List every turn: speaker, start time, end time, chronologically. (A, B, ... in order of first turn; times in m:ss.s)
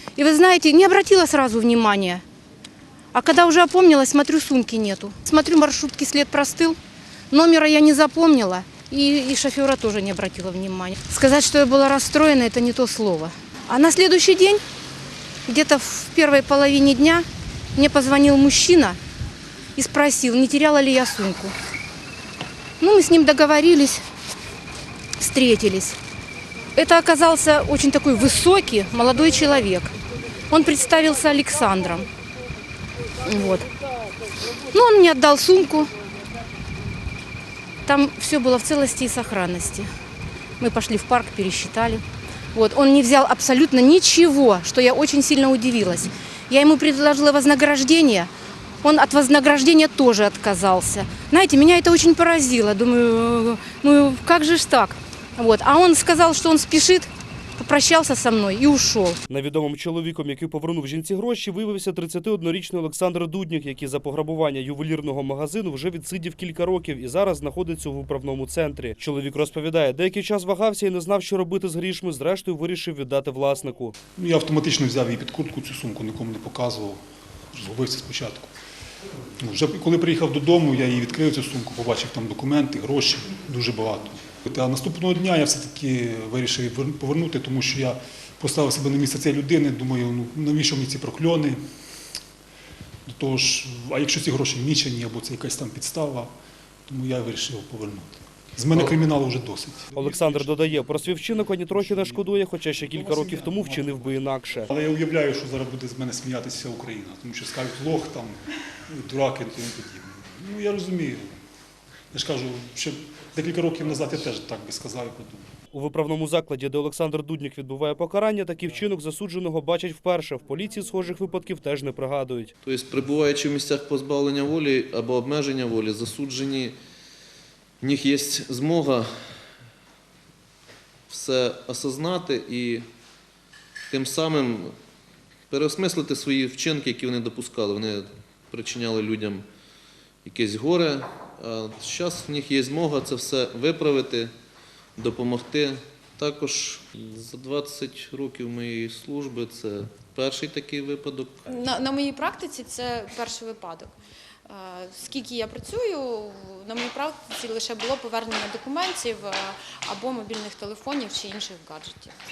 0:00.2-0:02.2 A
0:03.1-0:06.8 A
0:07.3-0:14.6 A
0:15.5-0:19.0 A
0:19.8-0:21.5 A
0:22.8-0:24.0 A
0:25.2-0:26.0 A
0:26.8-0:29.9 A
0:30.5-0:32.1 A
0:33.2-0:33.7 A
0:34.7-0:35.9 A
0:37.9-0:39.9 A
0:40.6-0:42.0 A
0:42.6-0:48.3 A
0:48.8-0:59.2 A
0:59.3-1:14.0 B
1:14.2-1:17.0 C
1:17.5-1:18.5 C
1:19.4-1:31.6 C
1:33.1-1:36.3 C
1:36.9-1:40.3 C
1:40.0-1:44.7 B
1:42.9-1:44.1 C
1:44.7-1:51.4 C
1:52.1-1:55.5 C
1:55.7-2:02.5 B
2:02.6-2:06.8 D
2:07.8-2:09.1 D
2:11.1-2:12.9 D
2:13.9-2:14.8 D
2:15.5-2:19.4 D
2:20.2-2:24.3 D
2:25.0-2:31.6 D
2:31.5-2:34.0 E
2:34.5-2:42.1 E